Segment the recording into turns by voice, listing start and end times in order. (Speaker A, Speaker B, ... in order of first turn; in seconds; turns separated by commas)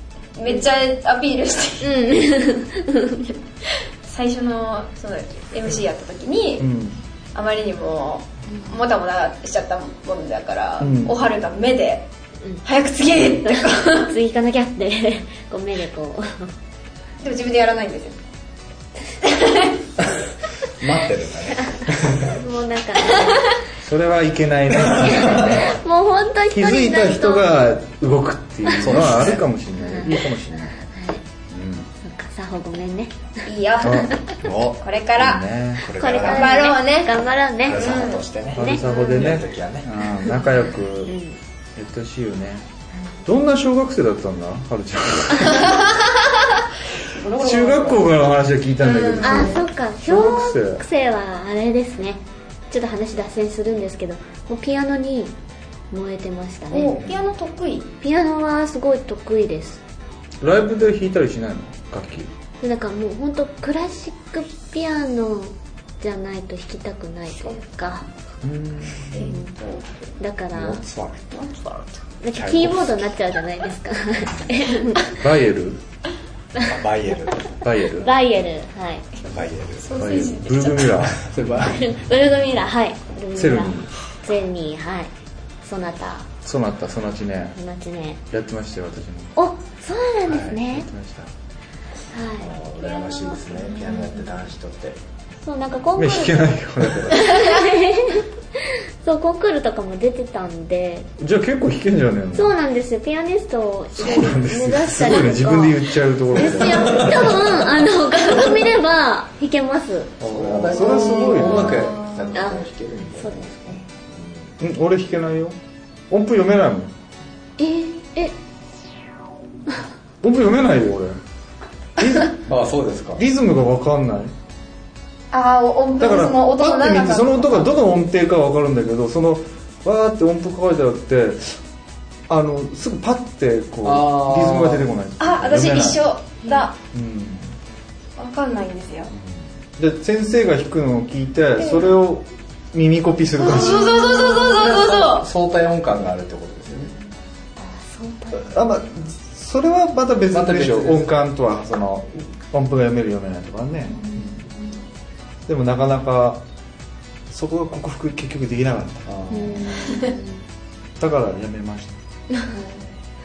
Speaker A: 0.3-2.0, Speaker B: 1.8-3.3, Speaker A: 4.0-6.7, Speaker C: 6.6-7.0, Speaker A: 7.3-12.1, Speaker C: 10.8-11.2, Speaker A: 12.6-14.1, Speaker B: 13.4-16.5, Speaker A: 17.2-18.2, Speaker A: 19.2-19.8, Speaker D: 20.7-22.4, Speaker B: 21.7-23.5, Speaker C: 23.8-25.7, Speaker D: 24.8-25.6, Speaker B: 25.1-27.5, Speaker C: 26.5-30.8, Speaker B: 28.6-29.0, Speaker D: 28.8-29.4, Speaker B: 29.8-30.3, Speaker B: 30.8-31.2, Speaker C: 31.5-31.9, Speaker B: 32.0-33.1, Speaker A: 33.5-35.4, Speaker C: 33.8-34.1, Speaker D: 34.4-34.8, Speaker C: 35.2-35.9, Speaker D: 35.8-36.7, Speaker B: 35.9-37.9, Speaker A: 36.2-37.1, Speaker D: 37.6-39.9, Speaker A: 37.7-38.2, Speaker C: 38.5-41.1, Speaker B: 38.5-38.9, Speaker A: 38.8-39.4, Speaker B: 41.0-41.4, Speaker C: 41.8-42.6, Speaker C: 43.2-45.9, Speaker A: 45.5-46.0, Speaker A: 47.0-48.1, Speaker C: 47.4-50.8, Speaker A: 48.8-49.6, Speaker B: 49.2-55.3, Speaker B: 55.9-57.0, Speaker A: 56.7-57.9, Speaker B: 58.0-59.8, Speaker C: 60.4-62.3, Speaker B: 62.6-68.1, Speaker C: 68.4-69.3, Speaker A: 69.1-69.9, Speaker B: 69.2-69.5, Speaker B: 70.2-70.8, Speaker D: 70.5-71.2, Speaker A: 71.3-72.0, Speaker B: 72.2-75.0, Speaker D: 72.3-73.1, Speaker C: 75.1-75.8, Speaker D: 76.6-77.6, Speaker C: 77.6-78.1, Speaker B: 77.9-79.0, Speaker D: 79.2-80.3, Speaker A: 79.8-80.9, Speaker C: 79.9-81.2, Speaker D: 80.9-81.9, Speaker B: 81.6-85.1, Speaker C: 83.3-83.9, Speaker B: 85.6-86.3, Speaker C: 86.4-87.6, Speaker B: 87.5-88.2, Speaker C: 88.3-89.3, Speaker B: 89.3-90.9, Speaker C: 90.3-91.3, Speaker B: 92.1-94.3, Speaker D: 92.4-95.0, Speaker B: 95.4-101.1, Speaker C: 96.0-97.6, Speaker C: 101.2-102.6, Speaker B: 102.3-110.2, Speaker C: 104.0-107.5, Speaker D: 106.4-107.7, Speaker C: 110.2-112.0, Speaker D: 110.2-114.6, Speaker A: 110.8-112.5, Speaker B: 111.0-113.8, Speaker C: 114.6-115.5, Speaker C: 116.1-116.9, Speaker B: 117.6-118.3, Speaker C: 120.2-121.2, Speaker C: 122.0-122.3, Speaker D: 122.5-123.2, Speaker C: 123.2-124.3, Speaker A: 125.3-127.7, Speaker C: 126.0-131.6, Speaker C: 132.3-136.0, Speaker D: 133.8-134.8, Speaker A: 135.2-136.8, Speaker B: 136.4-136.7, Speaker C: 136.9-137.5, Speaker A: 138.2-139.1, Speaker C: 139.1-144.2, Speaker A: 141.6-141.9, Speaker A: 143.4-145.3, Speaker D: 143.9-146.9, Speaker B: 147.6-148.5, Speaker C: 148.3-154.4, Speaker D: 150.3-151.1, Speaker A: 153.9-154.8, Speaker C: 155.5-156.4, Speaker C: 157.3-159.1, Speaker D: 159.1-159.6, Speaker B: 159.3-160.4, Speaker C: 161.0-162.0, Speaker A: 162.3-162.9